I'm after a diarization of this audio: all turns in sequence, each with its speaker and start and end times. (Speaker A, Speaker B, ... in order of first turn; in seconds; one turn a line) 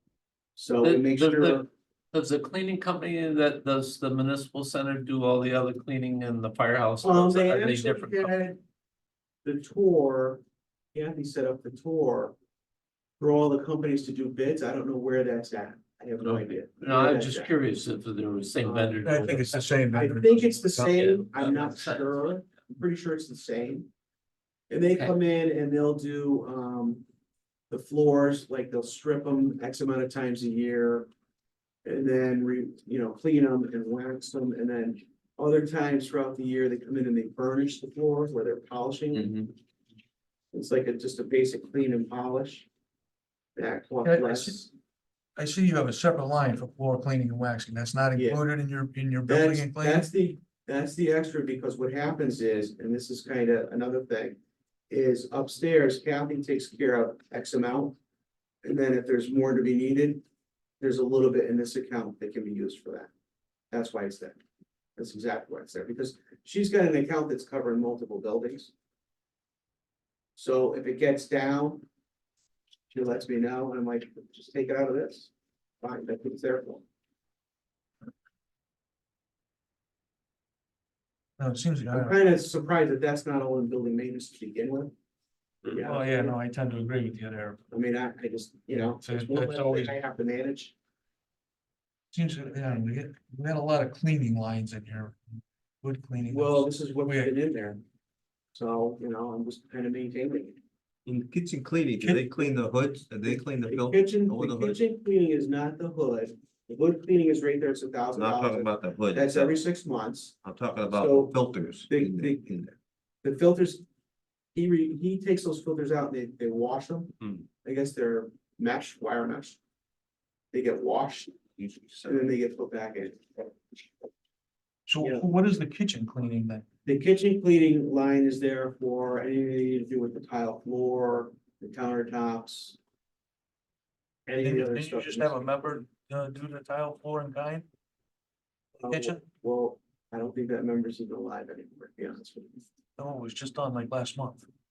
Speaker A: 0.6-1.6
Speaker B: 0.8-8.3
Speaker A: 7.0-8.6
Speaker A: 9.4-10.4
Speaker A: 10.9-12.3
Speaker A: 13.2-17.5
Speaker B: 16.2-19.7
Speaker A: 18.6-23.9
Speaker C: 19.0-21.0
Speaker B: 20.8-22.3
Speaker A: 24.7-27.0
Speaker A: 27.7-31.1
Speaker A: 31.8-39.3
Speaker B: 39.1-39.5
Speaker A: 40.5-42.7
Speaker A: 43.5-44.7
Speaker C: 44.0-44.6
Speaker C: 45.4-50.1
Speaker A: 48.1-48.4
Speaker A: 49.2-54.4
Speaker A: 54.9-57.9
Speaker A: 58.6-60.2
Speaker A: 60.8-63.1
Speaker A: 63.7-64.4
Speaker A: 65.0-68.7
Speaker A: 70.3-71.8
Speaker A: 72.9-76.8
Speaker C: 81.4-82.2
Speaker A: 81.9-84.9
Speaker A: 85.7-86.3
Speaker C: 85.7-87.6
Speaker A: 87.7-90.7
Speaker C: 88.8-89.9
Speaker C: 92.1-95.2
Speaker C: 95.8-97.3
Speaker A: 96.3-97.8
Speaker A: 98.5-100.6
Speaker D: 101.0-104.8
Speaker A: 103.3-111.4
Speaker D: 108.1-109.6
Speaker D: 110.4-112.7
Speaker A: 111.9-112.5
Speaker A: 113.2-113.8
Speaker A: 114.5-119.6
Speaker A: 120.5-121.4
Speaker D: 121.6-122.2
Speaker A: 122.0-123.5
Speaker C: 124.9-126.6
Speaker A: 125.0-125.3
Speaker A: 126.8-132.8
Speaker A: 134.2-135.6
Speaker C: 134.4-137.7
Speaker A: 138.8-142.6
Speaker C: 138.9-139.2
Speaker C: 143.0-144.5